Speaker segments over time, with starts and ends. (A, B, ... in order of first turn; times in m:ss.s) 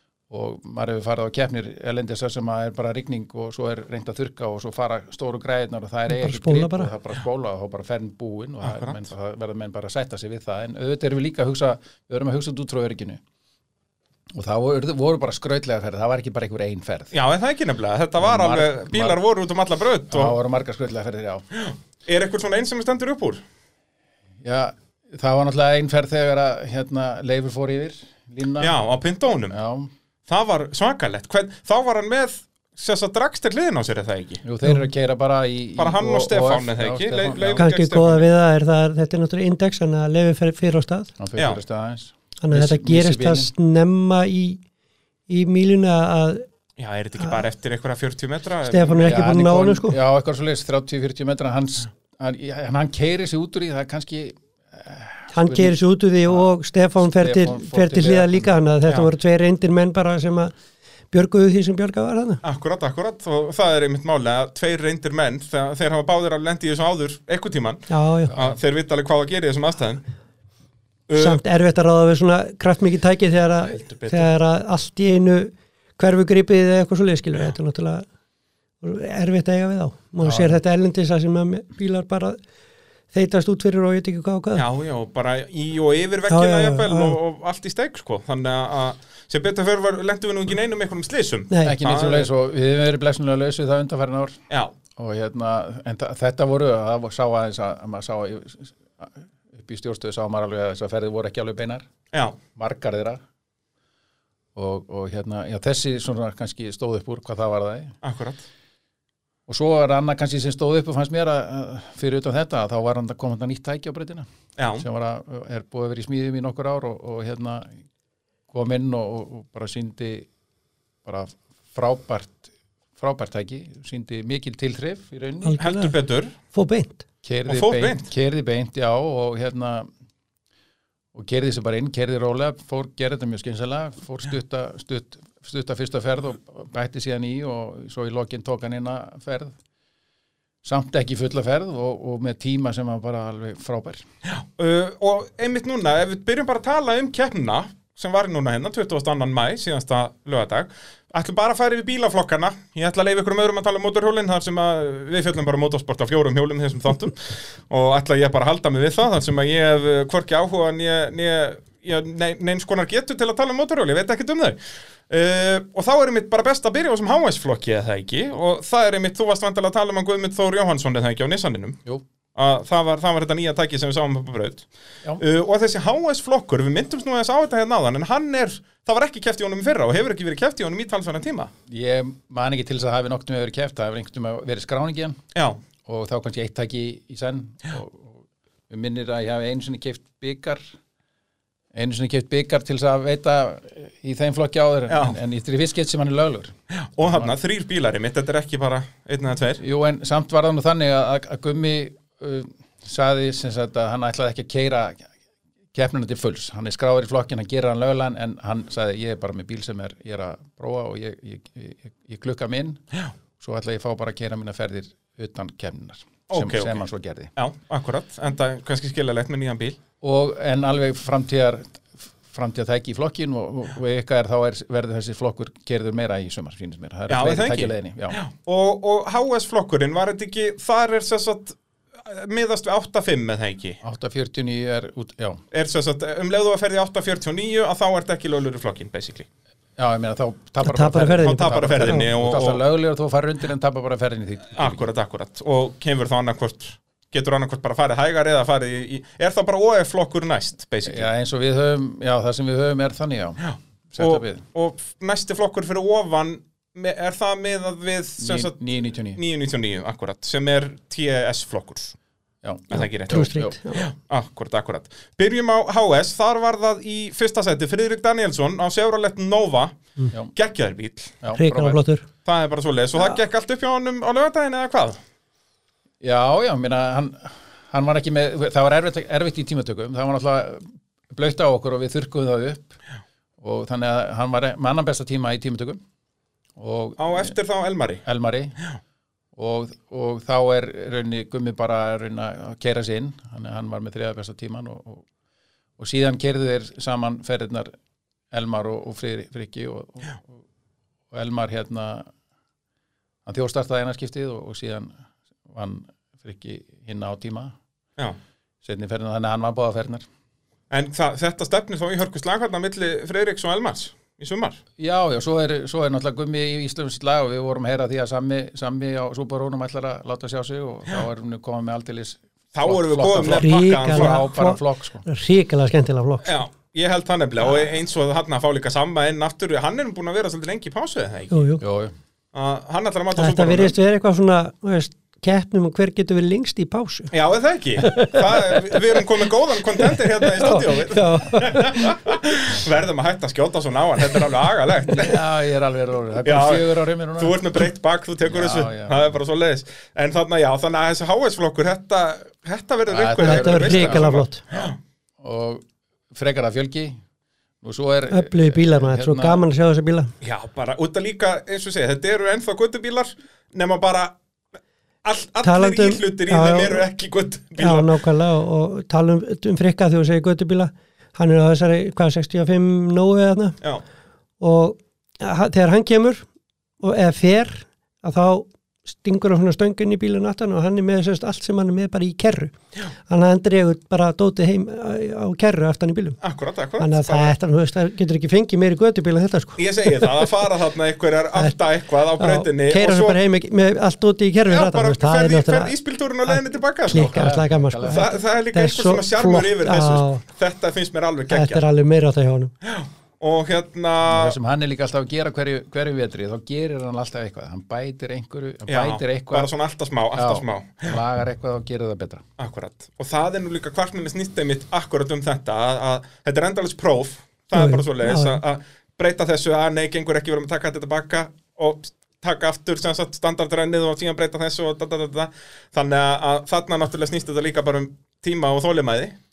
0:00.3-0:13.2 A
0:06.1-0:06.9 B
0:08.6-0:09.0 C
0:14.3-0:17.1 A
0:17.1-0:20.3 C
0:18.2-0:19.2 A
0:20.1-0:21.4 A
0:21.6-0:23.4 C
0:24.4-0:28.8 A
0:28.6-0:29.5 C
0:29.5-0:29.9 A
0:30.3-0:34.4 C
0:34.4-0:37.6 A
0:35.8-0:38.3 C
0:37.6-0:41.1 B
0:41.2-0:43.5 A
0:42.4-0:44.6 B
0:45.3-0:46.4 B
0:46.8-0:49.2 C
0:48.7-0:50.0 B
0:49.0-0:58.5 A
0:55.3-1:00.5 B
1:01.1-1:02.4 B
1:02.4-1:10.0 C
1:07.9-1:08.3 B
1:08.3-1:08.6 A
1:11.1-1:11.4 C
1:11.2-1:18.0 B
1:13.7-1:14.3 C
1:18.8-1:22.4 B
1:20.2-1:20.6 A
1:23.1-1:24.6 B
1:24.5-1:32.3 C
1:26.3-1:27.2 B
1:31.5-1:31.8 B
1:31.6-1:34.4 A
1:35.0-1:41.9 A
1:42.1-1:42.4 C
1:42.6-1:43.2 A
1:44.5-1:47.9 A
1:48.0-1:48.4 C
1:49.5-1:54.2 A
1:54.6-1:54.8 C
1:54.8-1:57.7 A
1:58.5-2:00.3 A
2:01.0-2:05.6 A
2:05.4-2:05.9 B
2:05.6-2:06.3 C
2:06.5-2:07.0 B
2:07.2-2:09.9 A
2:07.5-2:08.1 C
2:11.1-2:19.6 A
2:20.6-2:24.0 A
2:24.3-2:44.6 C
2:45.1-2:51.8 C
2:52.4-2:54.7 C
2:55.2-3:01.5 C
3:01.7-3:05.2 A
3:05.3-3:05.6 C
3:05.8-3:10.6 A
3:11.7-3:17.3 A
3:14.9-3:15.2 C
3:16.7-3:19.6 C
3:19.6-3:25.0 A
3:25.7-3:32.8 A
3:33.4-3:37.3 A
3:36.3-3:36.8 C
3:37.4-3:39.8 C
3:40.0-3:48.2 A
3:47.1-3:53.8 C
3:53.8-3:55.4 A
3:55.5-3:59.3 C
3:59.8-4:04.9 A
4:00.6-4:02.1 B
4:01.2-4:02.6 C
4:04.6-4:11.1 C
4:10.8-4:13.4 A
4:13.4-4:18.6 C
4:13.9-4:14.4 A
4:18.2-4:19.2 A
4:19.1-4:22.0 C
4:22.4-4:23.5 A
4:22.7-4:29.7 C
4:23.1-4:23.9 B
4:30.3-4:31.1 C
4:31.2-4:31.8 A
4:31.3-4:32.0 B
4:32.2-4:35.0 C
4:36.0-4:42.7 A
4:43.4-4:45.8 A
4:46.6-4:47.3 A
4:47.0-4:48.0 C
4:48.0-4:48.6 A
4:49.4-4:55.0 A
4:55.8-4:57.7 A
4:58.3-5:00.3 A
5:01.1-5:02.1 A
5:03.2-5:04.9 A
5:05.5-5:07.5 A
5:08.6-5:10.0 A
5:10.7-5:14.6 C
5:14.8-5:25.0 A
5:22.5-5:24.2 C
5:23.3-5:26.3 B
5:26.2-5:31.4 C
5:31.3-5:31.6 B
5:31.6-5:31.9 A
5:32.3-5:33.7 C
5:33.1-5:37.1 B
5:37.1-5:45.2 C
5:37.8-5:39.0 B
5:39.7-5:42.0 B
5:44.8-5:47.6 A
5:46.2-5:54.8 C
5:48.2-5:49.1 A
5:52.9-5:54.7 A
5:53.2-5:54.4 B
5:55.2-5:57.0 A
5:57.6-5:59.4 A
5:58.1-6:00.1 B
6:00.2-6:04.1 C
6:05.0-6:07.9 C
6:05.4-6:06.8 B
6:07.6-6:13.6 B
6:14.4-6:16.2 B
6:16.8-6:22.5 B
6:23.1-6:26.2 B
6:26.2-6:27.3 C
6:26.8-6:30.3 B
6:29.6-6:33.2 C
6:32.2-6:35.7 B
6:34.5-6:37.3 C
6:36.3-6:40.2 B
6:36.9-6:38.1 A
6:37.9-6:41.6 C
6:41.3-6:42.5 B
6:42.6-6:44.4 C
6:44.0-6:49.5 A
6:48.7-6:51.0 C
6:50.1-6:52.2 A
6:52.4-7:09.1 C
6:57.5-6:58.4 B